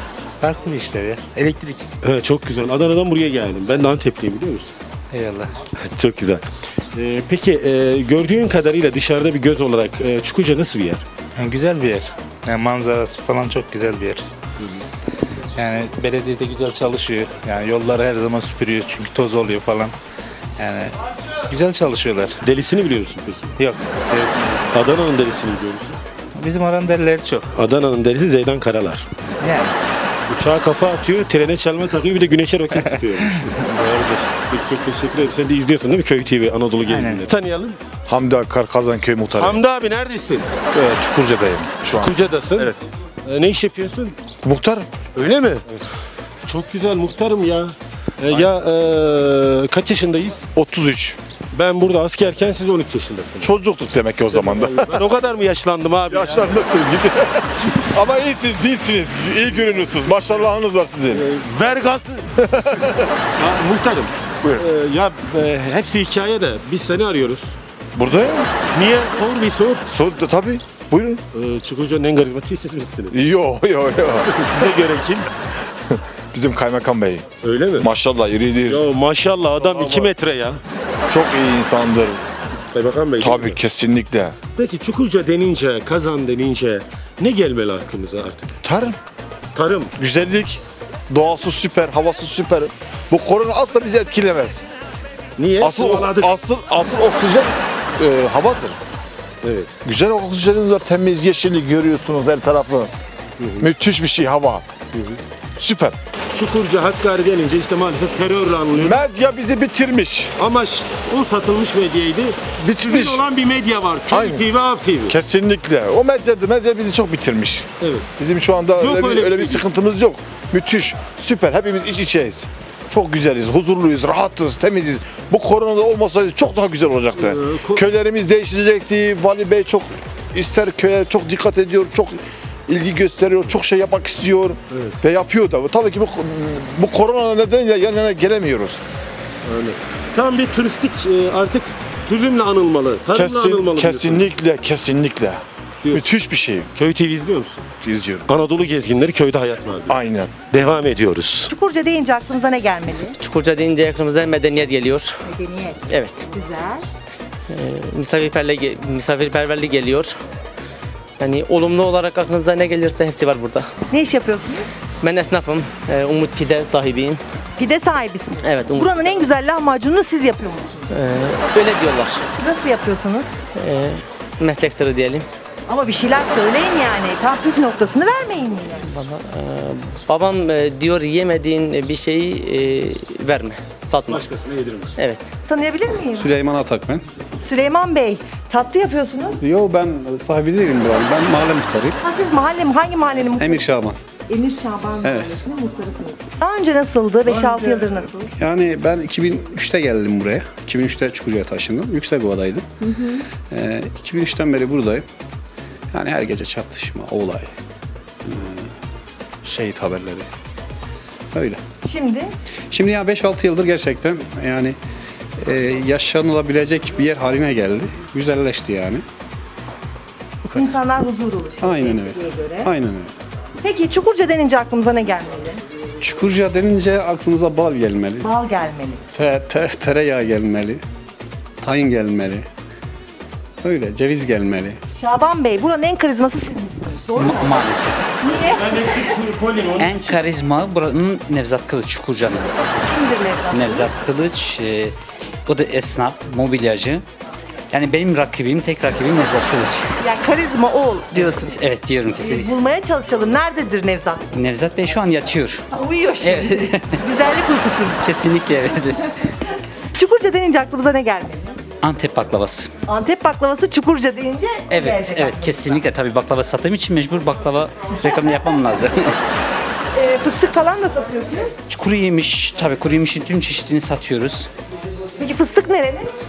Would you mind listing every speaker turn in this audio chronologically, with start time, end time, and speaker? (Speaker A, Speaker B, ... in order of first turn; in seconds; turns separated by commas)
Speaker A: 0.4-1.8, Speaker B: 2.0-4.7, Speaker A: 5.1-5.5, Speaker B: 5.8-6.4, Speaker B: 6.9-11.0, Speaker A: 11.3-14.2, Speaker A: 15.6-19.9, Speaker A: 20.6-20.9, Speaker A: 21.5-22.4, Speaker B: 22.4-23.5, Speaker A: 23.6-24.7, Speaker B: 24.7-26.0, Speaker A: 26.4-27.5, Speaker B: 27.5-29.0, Speaker A: 29.4-29.7, Speaker B: 30.3-33.4, Speaker B: 34.3-37.8, Speaker C: 38.1-39.6, Speaker B: 39.4-40.5, Speaker C: 40.7-42.8, Speaker B: 41.8-42.7, Speaker B: 43.2-44.1, Speaker C: 44.4-44.9, Speaker B: 45.1-45.8, Speaker B: 46.4-50.5, Speaker C: 50.5-51.2, Speaker B: 51.5-53.5, Speaker C: 53.4-55.0, Speaker B: 54.3-56.6, Speaker C: 56.1-61.3, Speaker B: 59.7-60.4, Speaker B: 61.1-67.5, Speaker C: 62.4-63.1, Speaker C: 68.0-68.5, Speaker B: 68.6-69.8, Speaker C: 69.8-71.2, Speaker B: 71.3-73.2, Speaker C: 73.1-74.4, Speaker B: 74.2-75.3, Speaker C: 75.9-77.2, Speaker B: 77.4-77.9, Speaker C: 77.8-78.8, Speaker B: 78.7-80.6, Speaker C: 79.7-80.1, Speaker C: 81.1-82.2, Speaker B: 82.7-83.6, Speaker C: 83.2-84.3, Speaker B: 84.5-88.5, Speaker C: 88.6-89.0, Speaker B: 89.5-89.9, Speaker C: 90.0-94.6, Speaker B: 95.4-96.3, Speaker C: 95.6-98.8, Speaker B: 99.4-99.7, Speaker C: 99.8-102.9, Speaker B: 103.4-103.6, Speaker C: 103.6-104.7, Speaker C: 105.6-106.0, Speaker B: 106.3-109.0, Speaker C: 108.7-110.3, Speaker B: 110.4-115.2, Speaker C: 112.6-113.2, Speaker C: 114.1-114.5, Speaker C: 115.1-138.8, Speaker B: 117.8-118.0, Speaker B: 118.8-119.7, Speaker B: 127.2-127.9, Speaker B: 134.7-135.0, Speaker B: 139.5-144.3, Speaker C: 143.1-146.7, Speaker B: 146.7-147.6, Speaker C: 147.8-148.2, Speaker B: 148.3-151.5, Speaker C: 149.9-150.4, Speaker D: 151.5-153.2, Speaker E: 153.2-155.2, Speaker D: 155.2-156.8, Speaker E: 155.9-156.3, Speaker E: 157.5-160.2, Speaker E: 161.2-163.7, Speaker D: 163.9-164.7, Speaker E: 165.0-167.2, Speaker D: 167.6-170.9, Speaker E: 168.4-169.3, Speaker E: 170.9-172.2, Speaker D: 172.4-173.4, Speaker E: 173.5-175.2, Speaker D: 175.7-178.9, Speaker E: 178.8-184.2, Speaker B: 184.0-184.9, Speaker E: 185.0-185.3, Speaker D: 185.4-186.3, Speaker F: 186.2-187.0, Speaker D: 187.4-189.4, Speaker F: 189.4-191.9, Speaker D: 192.0-193.8, Speaker F: 193.4-194.0, Speaker D: 194.3-198.3, Speaker F: 195.0-195.4, Speaker F: 198.4-202.7, Speaker D: 202.8-203.2, Speaker F: 203.5-205.0, Speaker F: 205.9-207.5, Speaker F: 208.2-208.7, Speaker F: 209.4-210.3, Speaker F: 211.3-211.6, Speaker D: 211.8-212.3, Speaker F: 212.7-214.8, Speaker F: 215.4-219.0, Speaker D: 220.5-222.7, Speaker F: 221.6-223.1, Speaker D: 223.6-225.6, Speaker F: 226.0-228.3, Speaker D: 228.2-229.0, Speaker F: 229.1-230.8, Speaker F: 231.6-232.5, Speaker F: 233.6-234.8, Speaker D: 234.9-237.6, Speaker G: 237.2-238.2, Speaker D: 238.2-239.1, Speaker B: 238.4-240.2, Speaker G: 239.8-242.7, Speaker D: 242.7-244.0, Speaker G: 243.5-247.0, Speaker G: 247.7-249.9, Speaker D: 250.0-251.6, Speaker G: 251.1-252.5, Speaker D: 252.2-254.3, Speaker G: 254.3-255.7, Speaker D: 255.7-258.2, Speaker G: 256.2-257.0, Speaker G: 258.0-259.0, Speaker D: 259.9-261.7, Speaker G: 261.8-262.7, Speaker D: 262.9-265.9, Speaker G: 264.7-269.2, Speaker D: 269.9-271.6, Speaker G: 271.7-274.5, Speaker D: 275.2-276.1